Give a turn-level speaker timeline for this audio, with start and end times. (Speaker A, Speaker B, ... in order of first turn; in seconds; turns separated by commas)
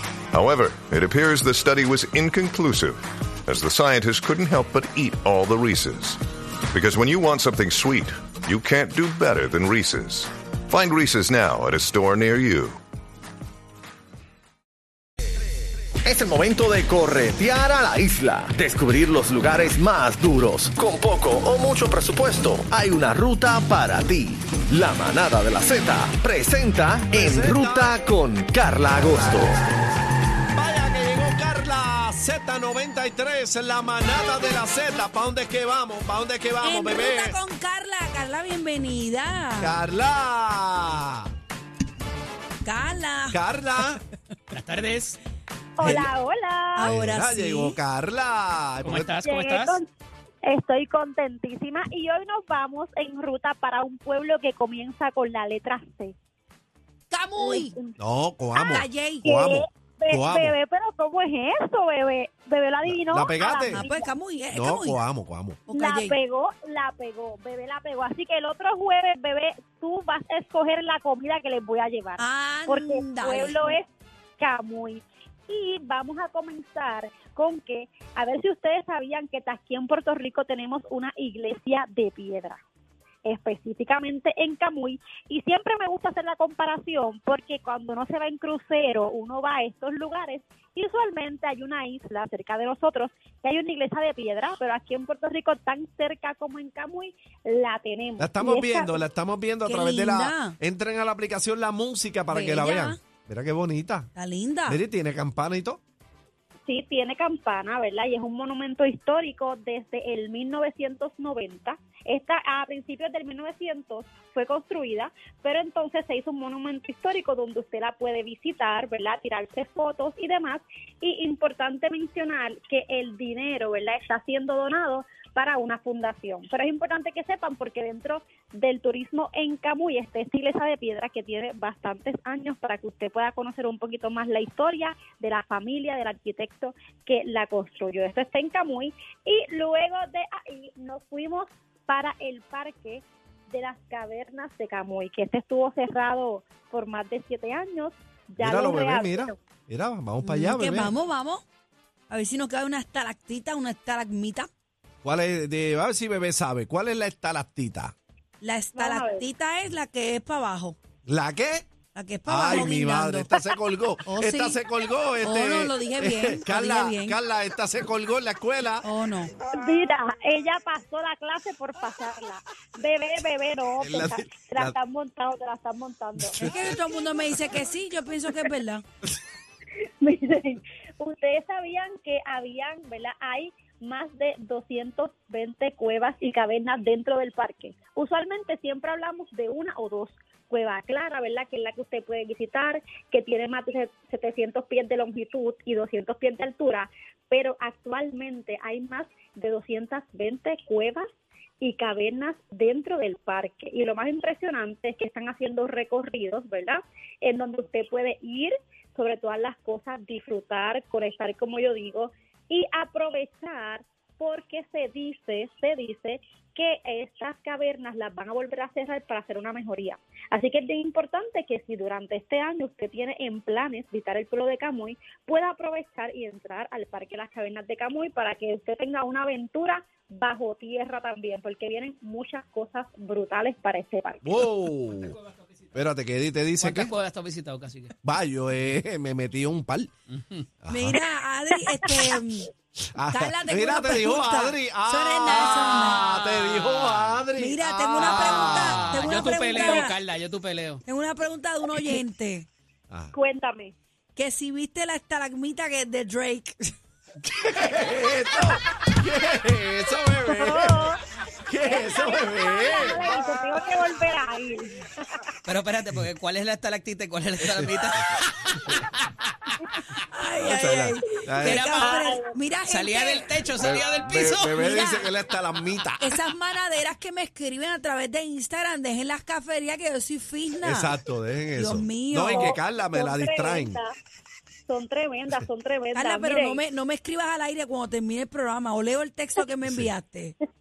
Speaker A: 0.3-6.2, Speaker A: 6.7-12.8, Speaker B: 16.0-29.6, Speaker C: 27.1-28.0, Speaker C: 30.5-37.4, Speaker D: 36.6-39.8, Speaker C: 39.6-41.3, Speaker D: 42.6-43.4, Speaker C: 43.3-44.0, Speaker E: 44.5-45.2, Speaker F: 45.8-46.9, Speaker D: 46.8-47.8, Speaker C: 46.8-49.1, Speaker E: 48.8-49.8, Speaker F: 49.2-49.9, Speaker F: 50.4-56.1, Speaker D: 57.1-57.8, Speaker F: 57.4-58.0, Speaker C: 58.0-60.6, Speaker D: 58.5-59.3, Speaker F: 59.2-64.1, Speaker C: 62.8-63.8, Speaker D: 63.7-65.0, Speaker C: 64.5-65.6, Speaker D: 65.7-66.2, Speaker F: 65.7-73.9, Speaker D: 72.2-73.8, Speaker F: 74.4-82.6, Speaker F: 83.2-99.0, Speaker C: 98.2-104.1, Speaker D: 99.7-100.6, Speaker D: 102.3-103.0, Speaker D: 104.2-104.8, Speaker C: 104.7-105.8, Speaker F: 106.7-149.3, Speaker C: 148.4-150.9, Speaker D: 150.2-151.4, Speaker D: 152.1-154.5, Speaker C: 155.0-157.9, Speaker D: 158.4-160.8, Speaker F: 158.8-159.2, Speaker C: 161.1-161.7, Speaker D: 161.9-163.4, Speaker C: 162.2-168.9, Speaker D: 164.0-164.6, Speaker D: 165.2-167.2, Speaker D: 168.8-169.3, Speaker F: 169.5-176.5, Speaker C: 173.8-174.8, Speaker D: 176.4-178.8, Speaker F: 180.0-201.1, Speaker F: 201.6-234.4, Speaker C: 234.2-235.2, Speaker E: 235.1-235.4, Speaker C: 235.7-236.9, Speaker E: 236.6-237.9, Speaker C: 238.0-239.9, Speaker E: 240.1-240.5, Speaker C: 240.6-241.0, Speaker D: 240.7-242.5, Speaker C: 242.9-249.2, Speaker D: 243.1-246.0, Speaker E: 246.0-247.0, Speaker D: 247.3-249.9, Speaker E: 248.0-250.8, Speaker F: 249.5-249.9, Speaker D: 250.8-252.5, Speaker F: 253.1-253.7, Speaker D: 254.2-256.7, Speaker C: 257.2-260.8, Speaker F: 260.3-261.0, Speaker C: 261.4-263.1, Speaker F: 261.6-265.2, Speaker E: 265.4-269.5, Speaker C: 267.4-267.7, Speaker D: 270.0-273.4, Speaker C: 270.4-271.6, Speaker E: 271.4-274.6, Speaker F: 271.8-272.2, Speaker C: 273.6-276.2, Speaker D: 274.1-275.1, Speaker D: 276.0-280.9, Speaker C: 280.6-283.8, Speaker D: 281.6-282.6, Speaker F: 282.3-283.9, Speaker F: 284.7-286.6, Speaker D: 285.9-290.4